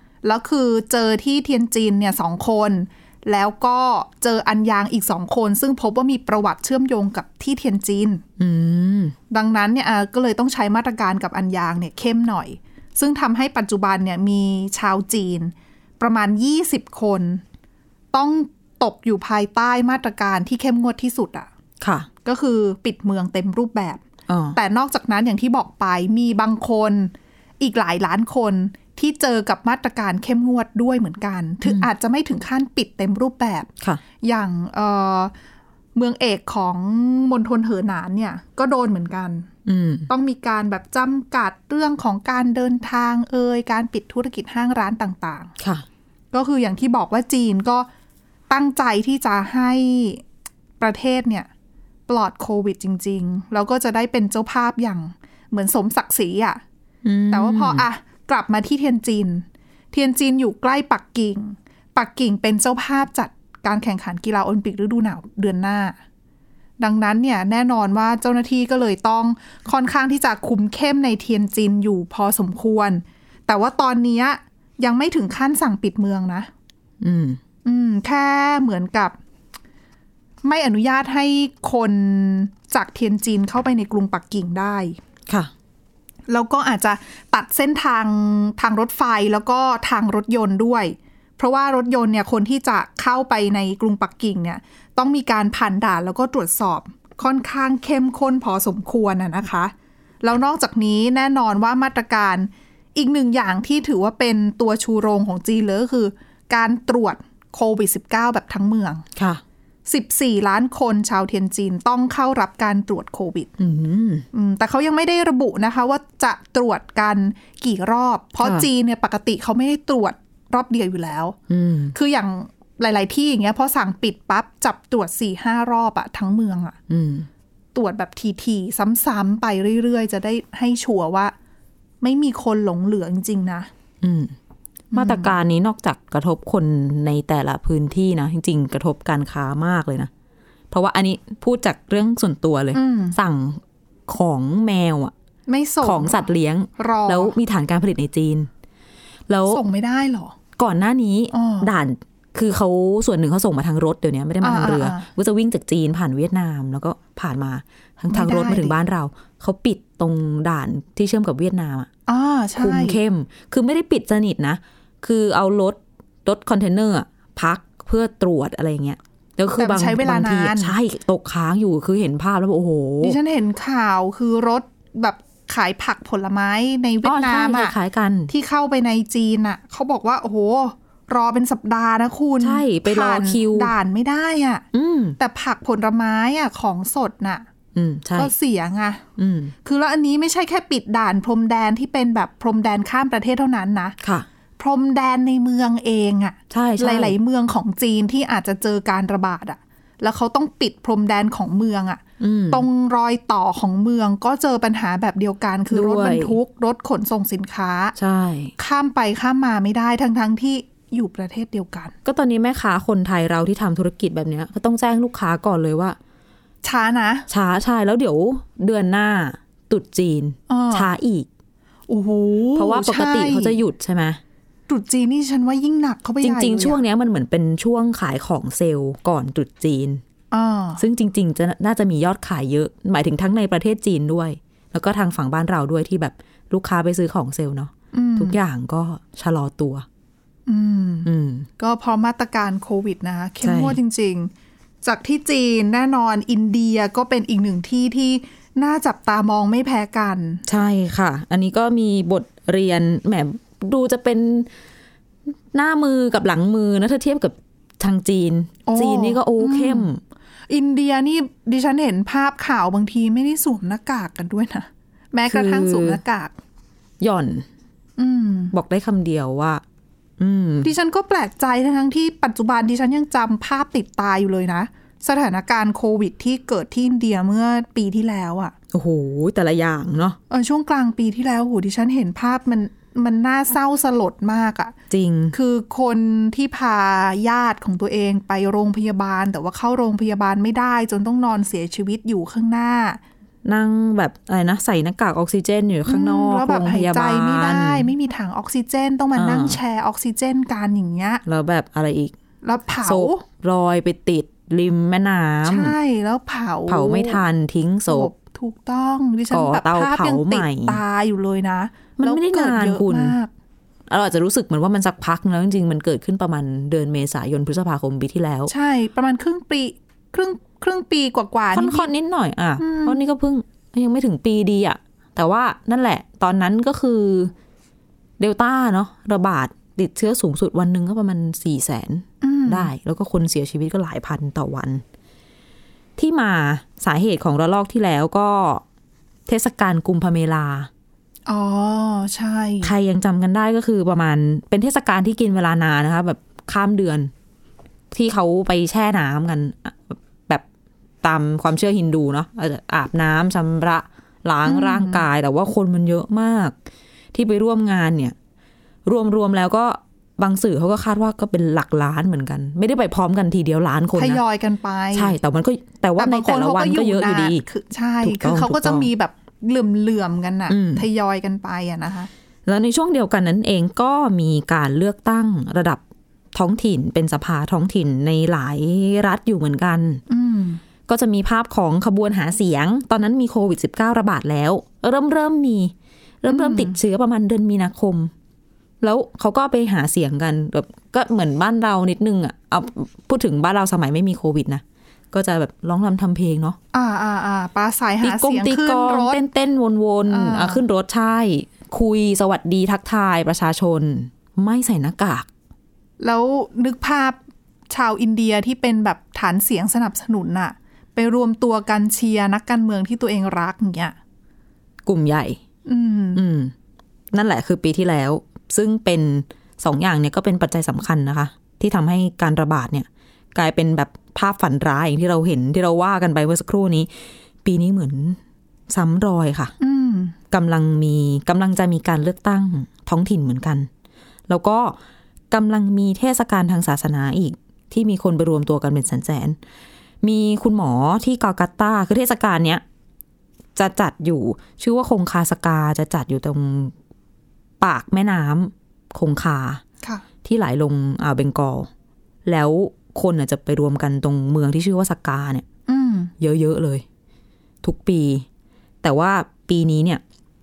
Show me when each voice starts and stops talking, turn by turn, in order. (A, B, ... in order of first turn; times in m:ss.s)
0:00.2-0:08.2 A
0:08.4-0:09.1 B
0:09.3-0:17.4 A
0:18.1-0:21.5 A
0:21.8-0:22.1 B
0:22.2-0:24.0 A
0:24.3-0:24.6 B
0:24.5-0:33.7 A
0:34.2-0:35.3 A
0:35.9-0:39.5 A
0:39.6-0:40.1 B
0:40.1-0:45.5 A
0:45.6-0:45.8 B
0:46.3-0:47.9 A
0:48.5-0:50.2 A
0:50.8-0:51.5 A
0:52.1-0:56.6 A
0:57.0-0:57.8 B
0:57.3-1:06.0 A
1:06.8-1:16.5 A
1:17.0-1:17.4 B
1:17.6-1:19.2 A
1:20.4-1:25.0 A
1:26.3-1:49.0 A
1:49.2-1:49.4 B
1:49.8-1:53.5 A
1:53.6-1:54.2 B
1:54.3-2:01.4 A
1:58.4-1:58.7 B
2:01.5-2:01.9 B
2:01.9-2:06.8 A
2:06.9-2:07.3 B
2:07.7-2:11.3 A
2:12.0-2:13.7 A
2:14.0-2:14.3 B
2:14.9-2:15.3 A
2:14.9-2:20.1 B
2:20.7-2:25.1 B
2:22.7-2:23.2 A
2:25.5-2:27.3 A
2:25.8-2:28.5 B
2:29.3-2:29.6 B
2:29.5-2:30.4 A
2:30.6-2:41.9 B
2:31.3-2:31.7 A
2:34.4-2:35.1 A
2:38.1-2:38.8 A
2:42.1-2:43.0 A
2:42.6-2:53.2 B
2:49.6-2:50.7 A
2:53.0-2:57.7 A
2:57.0-2:58.3 B
2:58.3-3:04.6 A
3:02.4-3:03.7 B
3:04.7-3:05.2 B
3:05.2-3:07.4 A
3:07.7-3:08.3 B
3:08.2-3:09.0 A
3:09.2-3:09.5 B
3:09.6-3:14.0 A
3:14.0-3:14.3 B
3:14.6-3:27.9 A
3:16.5-3:17.2 B
3:22.2-3:22.6 B
3:25.7-3:26.4 B
3:28.0-3:28.5 B
3:28.6-3:31.9 A
3:32.0-3:36.0 B
3:36.6-3:37.3 A
3:37.3-3:41.3 B
3:40.5-3:40.9 A
3:41.9-3:43.6 A
3:42.6-3:44.2 B
3:44.7-3:46.8 A
3:46.2-3:50.0 B
3:50.3-3:50.8 A
3:50.8-3:59.8 B
3:57.9-3:58.4 A
4:00.5-4:04.3 A
4:01.0-4:01.5 B
4:03.4-4:03.8 B
4:04.8-4:10.4 A
4:10.4-4:14.5 B
4:15.5-4:20.0 B
4:18.6-4:19.9 A
4:20.5-4:26.3 A
4:25.3-4:26.0 B
4:27.0-4:27.4 B
4:28.0-4:28.5 A
4:28.5-4:29.6 B
4:30.2-4:30.7 B
4:30.6-4:38.5 A
4:38.7-4:40.2 B
4:40.3-4:44.7 A
4:44.9-4:45.3 B
4:45.3-4:53.0 A
4:53.4-4:57.9 B
4:55.8-5:01.2 A
4:59.1-4:59.6 B
5:01.2-5:02.1 B
5:02.4-5:03.2 A
5:02.8-5:05.8 B
5:05.4-5:07.2 A
5:06.7-5:08.1 B
5:07.9-5:13.3 A
5:09.3-5:10.8 B
5:12.0-5:13.2 B
5:13.9-5:18.5 B
5:18.5-5:21.9 A
5:21.5-5:27.3 B
5:22.6-5:23.0 A
5:28.2-5:34.8 B
5:32.2-5:32.7 A
5:36.0-5:38.6 B
5:39.3-5:40.7 B
5:41.3-5:42.7 A
5:42.6-5:47.1 B
5:47.9-5:50.4 B
5:51.0-5:56.5 B
5:54.4-5:55.0 A
5:57.1-5:58.1 B
5:58.8-6:04.2 B
6:04.0-6:05.2 A
6:04.9-6:07.4 B
6:06.0-6:12.1 A
6:08.0-6:08.9 B
6:10.5-6:10.8 B
6:12.4-6:15.8 B
6:16.3-6:20.0 B
6:20.1-6:20.6 A
6:20.9-6:28.1 B
6:26.3-6:26.8 A
6:28.8-6:36.6 B
6:36.7-6:39.2 A
6:38.0-6:45.3 B
6:40.1-6:40.6 A
6:46.0-6:47.2 A
6:47.7-6:53.9 A
6:54.8-6:55.4 B
6:55.6-6:56.2 A
6:56.1-6:56.5 B
6:57.1-7:06.9 B
7:07.4-7:09.5 B
7:09.6-7:10.2 A
7:10.3-7:13.7 B
7:14.3-7:14.8 B
7:15.3-7:19.4 B
7:20.0-7:22.6 B
7:23.6-7:26.7 B
7:27.6-7:29.6 B
7:30.2-7:31.7 B
7:32.2-7:35.4 B
7:35.7-7:36.1 A
7:36.2-7:36.8 B
7:37.6-7:38.2 B
7:38.8-7:40.0 B